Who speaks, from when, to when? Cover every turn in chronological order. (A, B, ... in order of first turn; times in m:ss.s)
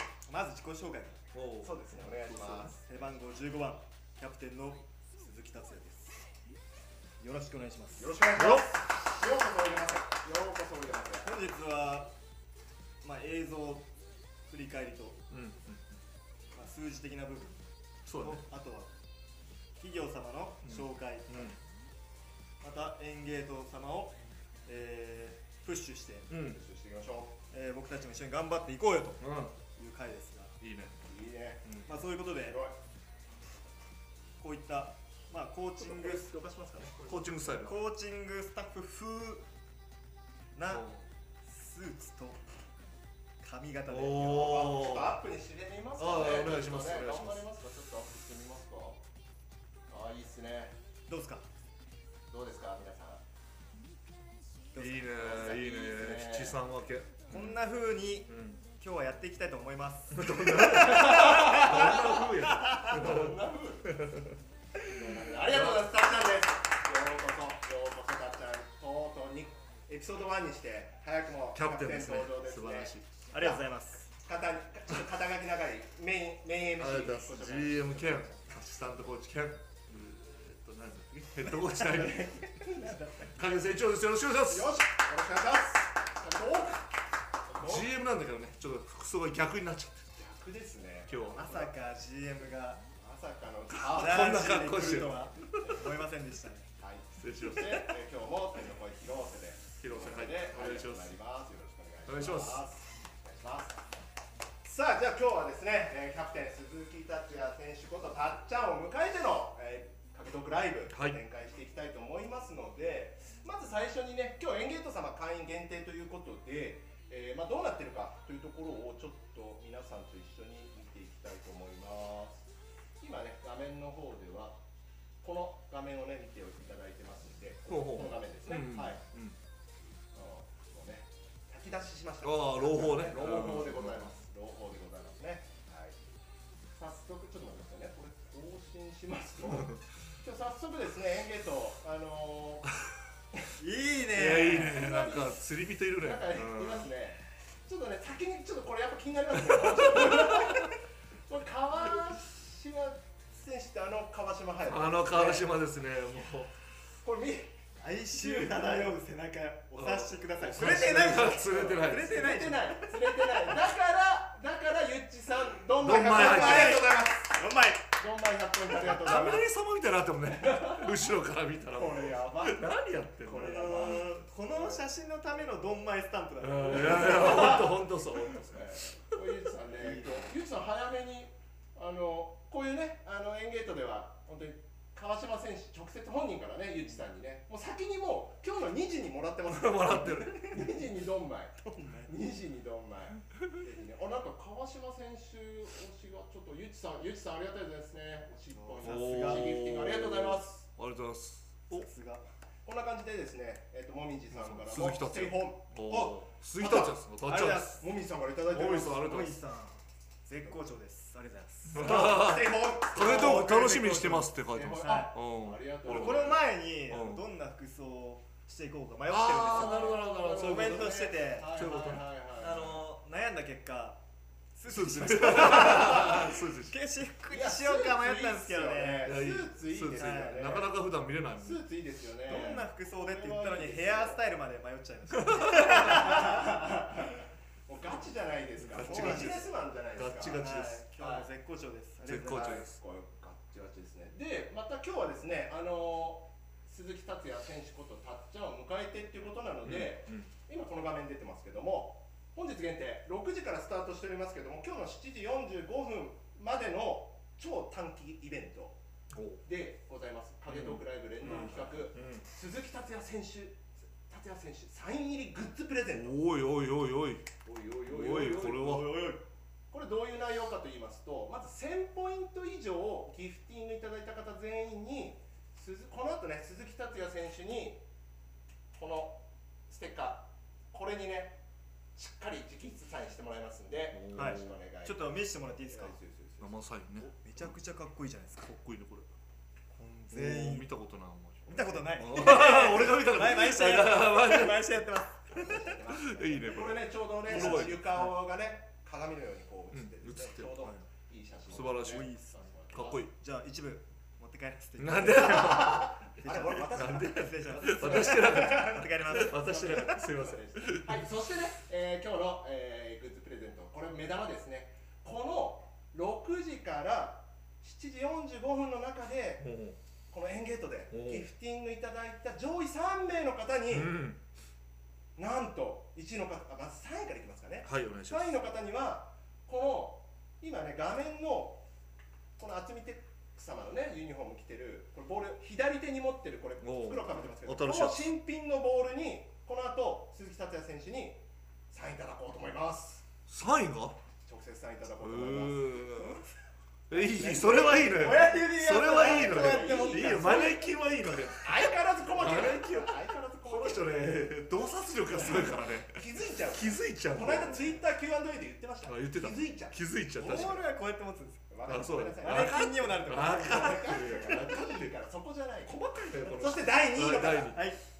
0:00.3-0:01.2 A
0:01.3-0:02.8 B
0:01.6-0:02.8 C
0:02.8-0:06.2 A
0:07.2-0:08.2 A
0:08.0-0:11.3 C
0:08.3-0:08.7 B
0:11.2-0:12.1 A
0:13.0-0:13.9 A
0:14.5-0:15.2 A
0:15.3-0:16.0 B
0:16.5-0:18.9 A
0:18.1-0:18.4 B
0:19.8-0:21.6 A
0:20.6-0:21.6 B
0:22.6-0:26.3 A
0:26.3-0:26.6 B
0:26.3-0:27.4 C
0:27.5-0:29.2 A
0:29.2-0:29.5 B
0:29.7-0:30.6 A
0:30.6-0:31.0 B
0:31.1-0:32.8 C
0:31.9-0:32.6 A
0:34.4-0:36.2 A
0:35.8-0:37.3 C
0:37.1-0:37.8 B
0:37.6-0:39.4 A
0:40.5-0:40.9 A
0:40.7-0:41.0 B
0:41.4-0:42.4 A
0:43.4-0:44.7 A
0:43.9-0:45.2 B
0:44.2-0:49.0 C
0:46.0-0:47.4 B
0:49.9-0:50.8 C
0:51.1-0:51.5 A
0:52.3-0:53.2 C
0:54.7-0:57.6 B
0:54.8-0:56.6 C
0:57.3-1:02.0 A
0:58.3-0:58.6 B
1:00.1-1:04.3 B
1:00.8-1:03.9 C
1:02.6-1:02.8 A
1:04.8-1:18.4 C
1:05.4-1:05.9 B
1:11.5-1:13.1 B
1:13.3-1:14.1 A
1:16.8-1:22.4 B
1:21.9-1:23.0 C
1:22.6-1:23.3 A
1:23.3-1:24.7 B
1:24.5-1:27.9 C
1:27.6-1:30.1 B
1:30.2-1:31.7 C
1:31.1-1:31.6 B
1:31.4-1:32.8 A
1:33.0-1:35.9 C
1:33.7-1:35.7 B
1:33.9-1:36.7 A
1:36.8-1:43.9 C
1:37.2-1:37.9 B
1:39.8-1:41.2 B
1:42.1-1:42.6 B
1:44.6-2:02.4 C
1:50.9-1:51.2 B
2:03.0-2:04.6 C
2:05.2-2:09.0 C
2:07.7-2:09.4 B
2:10.1-2:16.0 C
2:12.2-2:14.1 B
2:16.8-2:22.7 C
2:19.5-2:19.8 B
2:23.6-2:24.8 A
2:24.1-2:26.9 B
2:24.3-2:25.4 C
2:26.0-2:35.5 C
2:29.5-2:30.5 B
2:34.6-2:36.5 B
2:37.0-2:38.9 C
2:37.8-2:43.6 A
2:39.8-2:42.3 B
2:39.8-2:47.4 C
2:45.8-2:46.9 B
2:46.0-2:47.9 A
2:48.0-2:49.5 C
2:48.8-2:54.2 B
2:50.4-2:51.0 C
2:51.7-2:54.9 C
2:53.4-2:57.7 A
2:56.4-2:58.7 B
2:56.8-3:20.7 C
2:59.7-3:00.2 A
3:09.5-3:10.7 B
3:11.7-3:12.1 A
3:18.5-3:19.6 A
3:18.8-3:21.9 B
3:21.7-3:22.2 A
3:22.6-3:26.9 C
3:24.3-3:27.8 B
3:27.2-3:27.8 A
3:27.8-3:29.3 C
3:28.5-3:29.4 B
3:29.0-3:32.3 A
3:31.7-3:37.2 B
3:31.8-3:36.4 C
3:32.9-3:34.2 A
3:34.8-3:35.2 A
3:35.8-3:41.5 A
3:39.1-3:42.0 B
3:39.4-3:42.8 C
3:42.4-3:44.0 A
3:44.6-3:49.1 A
3:44.7-3:46.8 B
3:45.6-3:46.2 C
3:47.3-3:50.8 C
3:49.0-3:51.6 B
3:49.9-3:50.6 A
3:51.4-3:54.2 C
3:52.3-3:57.2 A
3:55.1-3:56.1 B
3:55.7-3:57.1 C
3:57.7-4:01.3 C
3:58.6-3:59.4 B
3:58.7-3:59.5 A
3:59.9-4:00.9 B
4:00.3-4:02.7 A
4:02.1-4:02.8 B
4:02.6-4:18.8 C
4:09.6-4:10.3 B
4:19.1-4:19.4 B
4:19.4-4:26.2 C
4:20.5-4:22.2 B
4:25.9-4:27.3 B
4:27.4-4:37.8 C
4:27.9-4:29.2 B
4:38.7-4:41.4 C
4:42.0-4:46.6 C
4:43.9-4:44.6 B
4:44.1-4:46.0 A
4:46.4-4:47.5 B
4:47.0-4:48.5 A
4:48.4-4:49.1 B
4:49.8-4:50.7 A
4:50.1-4:54.7 B
4:51.5-4:55.7 A
4:55.3-5:03.1 C
4:56.0-4:57.8 B
4:57.3-4:58.1 A
4:59.7-5:00.8 B
5:01.5-5:02.1 B
5:01.6-5:02.4 A
5:02.7-5:03.1 B
5:03.1-5:09.8 A
5:04.8-5:11.1 B
5:05.4-5:08.5 C
5:09.3-5:19.5 C
5:19.4-5:19.8 B
5:20.1-5:23.9 C
5:20.9-5:21.3 B
5:23.7-5:24.2 B
5:25.2-5:31.6 C
5:27.6-5:28.4 B
5:32.4-5:43.0 C
5:36.6-5:38.1 B
5:43.3-5:44.0 B
5:44.2-5:46.3 C
5:45.0-5:46.2 B
5:46.9-5:56.0 B
5:46.9-5:50.7 C
5:47.9-5:50.5 A
5:51.4-5:54.4 C
5:55.1-6:00.6 C
5:56.5-5:57.8 B
5:58.8-6:00.7 B
6:00.2-6:01.5 A
6:01.5-6:07.5 C
6:01.6-6:04.9 B
6:02.2-6:04.0 A
6:05.6-6:07.6 B
6:07.5-6:07.8 A